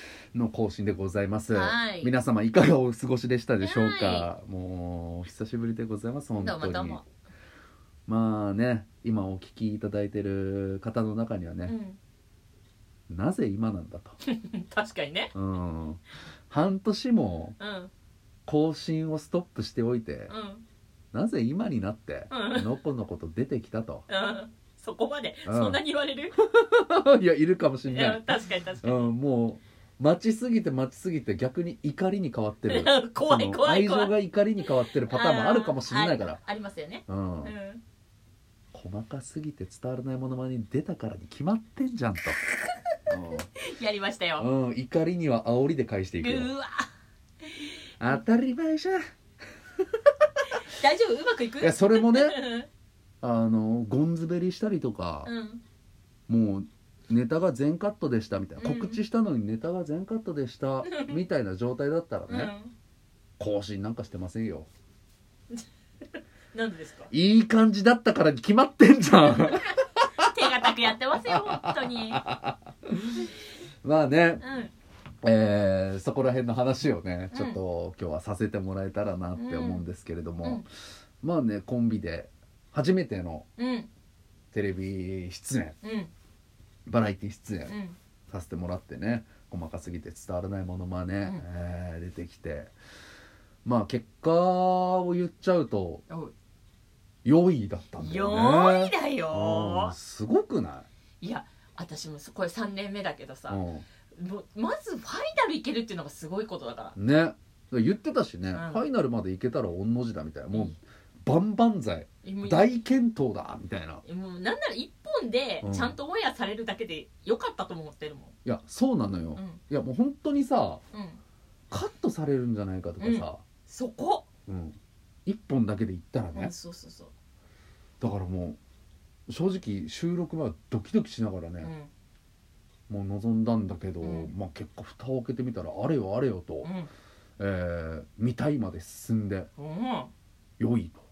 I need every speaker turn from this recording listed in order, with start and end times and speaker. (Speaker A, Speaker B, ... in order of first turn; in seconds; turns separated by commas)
Speaker A: 0.3-7.0, Speaker B: 1.5-2.1, Speaker B: 3.6-4.3, Speaker B: 6.4-7.0, Speaker A: 8.1-11.8, Speaker B: 11.7-12.0, Speaker A: 13.1-14.2, Speaker B: 14.2-15.3, Speaker A: 15.3-17.6, Speaker B: 17.6-17.9, Speaker A: 18.5-20.3, Speaker B: 20.3-20.6, Speaker A: 21.1-24.1, Speaker B: 22.3-22.8, Speaker B: 24.1-26.4, Speaker A: 25.5-25.8, Speaker A: 26.4-28.2, Speaker B: 27.9-29.1, Speaker A: 28.8-36.4, Speaker B: 32.7-37.8, Speaker A: 37.1-37.5, Speaker A: 38.7-42.4, Speaker A: 43.1-43.5, Speaker B: 43.5-44.5, Speaker A: 44.4-46.5, Speaker B: 46.2-46.9, Speaker B: 47.4-47.8, Speaker A: 48.0-49.0, Speaker B: 50.7-52.7, Speaker A: 51.6-52.4, Speaker A: 53.2-55.3, Speaker B: 55.2-55.6, Speaker A: 56.3-62.5, Speaker B: 58.6-59.0, Speaker B: 60.8-61.2, Speaker B: 62.3-62.7, Speaker A: 63.4-64.7, Speaker B: 66.5-67.1, Speaker A: 67.1-70.7, Speaker B: 70.3-72.2, Speaker A: 71.3-73.2, Speaker A: 73.8-74.4, Speaker B: 74.4-74.7, Speaker A: 75.2-80.7, Speaker B: 77.3-77.6, Speaker B: 79.4-79.8, Speaker A: 81.2-83.5, Speaker B: 83.6-83.9, Speaker A: 84.5-85.8, Speaker B: 85.8-86.1, Speaker A: 86.9-87.8, Speaker B: 87.7-88.0, Speaker A: 88.3-92.7, Speaker A: 93.7-96.0, Speaker A: 97.2-100.9, Speaker B: 98.0-100.0, Speaker B: 101.2-103.6, Speaker A: 103.5-103.9, Speaker B: 104.2-107.0, Speaker A: 107.0-114.0, Speaker B: 108.5-108.8, Speaker B: 112.2-112.7, Speaker B: 114.0-118.3, Speaker A: 115.6-116.0, Speaker A: 118.5-120.8, Speaker B: 120.9-121.2, Speaker A: 121.7-123.4, Speaker B: 123.0-124.3, Speaker A: 124.5-126.5, Speaker B: 126.3-127.1, Speaker A: 128.0-128.6, Speaker A: 129.3-131.7, Speaker B: 131.6-131.9, Speaker A: 132.9-136.7, Speaker B: 134.0-134.3, Speaker B: 136.6-136.9, Speaker A: 137.4-139.5, Speaker B: 139.6-140.1, Speaker A: 140.6-141.0